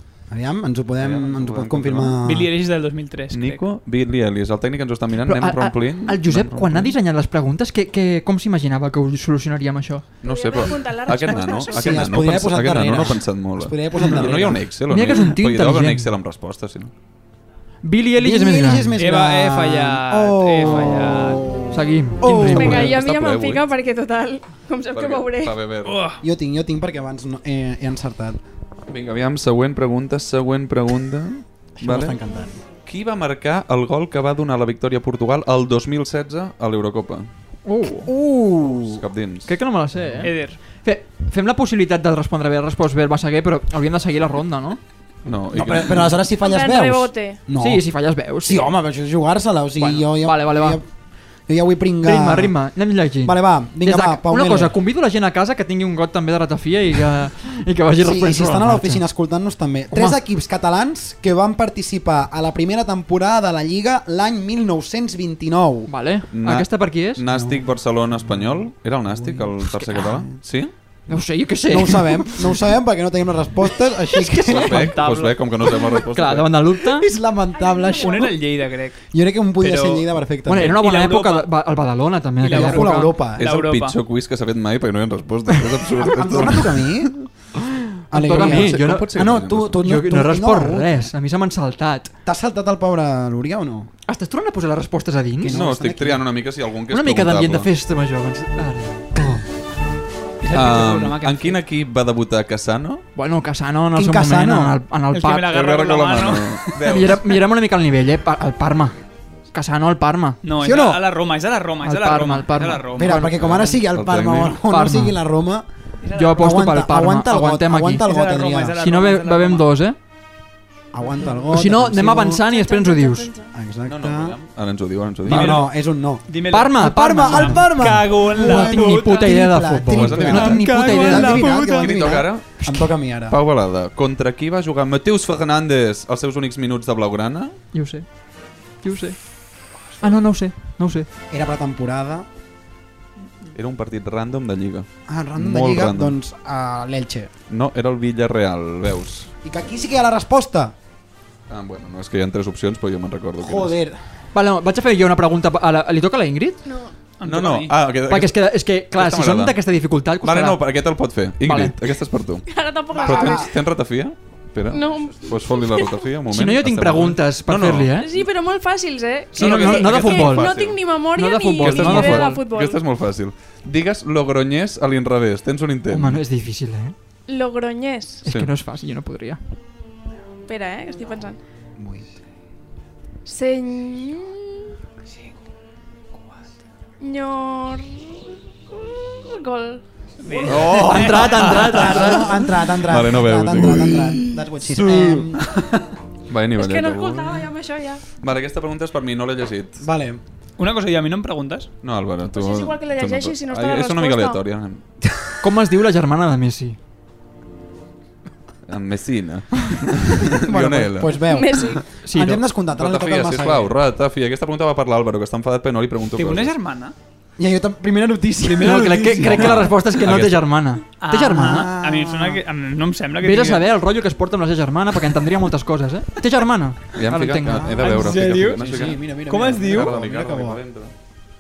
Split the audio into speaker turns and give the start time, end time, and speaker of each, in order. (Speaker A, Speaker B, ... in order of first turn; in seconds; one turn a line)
Speaker A: 0.3-2.5
Speaker B: 1.0-2.2
Speaker C: 2.2-3.6
Speaker B: 3.3-7.0
Speaker D: 5.2-10.1
Speaker B: 10.2-16.9
Speaker E: 10.2-12.1
Speaker A: 11.6-14.7
Speaker D: 14.9-16.1
Speaker D: 17.8-18.9
Speaker A: 18.2-22.9
Speaker C: 19.0-21.5
Speaker D: 21.7-22.9
Speaker E: 22.4-25.6
Speaker B: 22.6-23.6
Speaker B: 24.9-26.0
Speaker C: 25.9-26.2
Speaker A: 26.2-28.4
Speaker B: 28.9-32.2
Speaker A: 31.8-32.6
Speaker B: 32.9-37.3
Speaker D: 37.7-38.2
Speaker A: 38.0-39.0
Speaker B: 38.8-39.5
Speaker D: 39.5-44.8
Speaker C: 40.2-40.6
Speaker B: 45.2-46.2
Speaker A: 45.5-47.9
Speaker E: 46.4-47.4
Speaker D: 47.6-48.7
Speaker A: 48.4-50.9
Speaker D: 49.8-50.8
Speaker A: 51.5-52.6
Speaker D: 52.0-59.0
Speaker A: 53.2-54.8
Speaker A: 58.0-65.9
Speaker D: 59.9-60.2
Speaker D: 65.9-67.2
Speaker B: 66.3-70.7
Speaker A: 67.3-67.7
Speaker D: 69.6-70.3
Speaker D: 71.1-72.6
Speaker A: 71.7-75.0
Speaker D: 74.2-75.4
Speaker B: 74.4-76.5
Speaker D: 76.0-77.1
Speaker A: 76.8-78.4
Speaker E: 77.5-78.3
Speaker C: 78.0-79.0
Speaker A: 79.1-80.8
Speaker C: 79.6-81.5
Speaker D: 80.5-83.1
Speaker A: 82.4-83.5
Speaker C: 82.4-84.0
Speaker B: 83.4-87.1
Speaker A: 86.0-87.2
Speaker A: 88.1-91.0
Speaker D: 88.1-92.1
Speaker B: 88.3-89.8
Speaker A: 92.3-93.9
Speaker D: 94.1-95.6
Speaker A: 95.4-96.2
Speaker B: 95.5-97.7
Speaker D: 96.9-99.5
Speaker C: 100.4-101.6
Speaker B: 100.5-103.0
Speaker D: 103.2-105.5
Speaker A: 103.9-104.8
Speaker C: 105.1-106.7
Speaker B: 105.5-107.3
Speaker D: 106.9-109.0
Speaker D: 109.5-110.4
Speaker C: 110.4-113.2
Speaker A: 110.6-111.0
Speaker D: 111.8-113.3
Speaker A: 113.0-115.7
Speaker B: 113.1-114.6
Speaker D: 114.7-115.2
Speaker C: 116.0-116.5
Speaker D: 116.2-118.0
Speaker A: 116.3-118.8
Speaker C: 118.0-119.7
Speaker D: 118.8-120.0
Speaker A: 120.9-122.4
Speaker D: 121.5-123.3
Speaker E: 122.3-123.5
Speaker A: 123.5-124.4
Speaker B: 123.9-125.6
Speaker A: 125.3-133.4
Speaker C: 125.3-125.7
Speaker C: 126.3-129.4
Speaker D: 126.5-132.0
Speaker B: 129.9-132.7
Speaker C: 130.3-131.8
Speaker B: 133.3-137.6
Speaker D: 137.7-138.1
Speaker D: 138.8-139.2
Speaker D: 140.0-141.1
Speaker A: 141.3-142.3
Speaker B: 143.6-146.2
Speaker A: 145.1-147.3
Speaker B: 147.5-149.3
Speaker A: 149.4-150.8
Speaker B: 151.5-153.8
Speaker A: 153.4-154.0
Speaker D: 154.3-156.6
Speaker E: 156.7-156.9
Speaker C: 157.2-157.8
Speaker B: 157.2-159.6
Speaker D: 158.1-160.6
Speaker B: 160.2-162.5
Speaker D: 161.4-161.8
Speaker E: 162.5-163.5
Speaker A: 162.9-163.5
Speaker B: 163.0-168.2
Speaker E: 164.7-166.1
Speaker D: 166.3-168.1
Speaker E: 168.0-172.8
Speaker B: 169.3-170.9
Speaker D: 169.4-170.5
Speaker D: 171.2-172.4
Speaker B: 171.6-176.2
Speaker D: 175.9-176.9
Speaker E: 177.3-178.2
Speaker D: 178.2-179.4
Speaker B: 178.3-178.5
Speaker E: 180.5-181.4
Speaker A: 181.8-182.1
Speaker E: 183.3-184.7
Speaker E: 187.0-190.5
Speaker C: 190.2-191.5
Speaker B: 190.5-192.1
Speaker D: 190.6-192.5
Speaker A: 190.9-195.9
Speaker B: 192.8-195.3
Speaker B: 196.3-197.5
Speaker E: 196.6-198.0
Speaker B: 198.2-199.8
Speaker A: 199.8-200.2
Speaker C: 200.6-201.7
Speaker B: 201.8-204.8
Speaker E: 202.3-204.4
Speaker D: 205.4-206.8
Speaker B: 208.7-211.3
Speaker A: 210.3-213.8
Speaker E: 211.3-211.8
Speaker D: 212.1-212.4
Speaker B: 212.8-216.5
Speaker C: 216.2-216.9
Speaker A: 217.4-219.7
Speaker C: 218.5-219.6
Speaker D: 218.6-221.7
Speaker B: 219.3-220.4
Speaker C: 221.0-223.7
Speaker A: 221.3-222.4
Speaker D: 223.2-227.9
Speaker B: 226.9-229.0
Speaker A: 227.4-230.6
Speaker C: 227.8-229.9
Speaker B: 229.5-230.9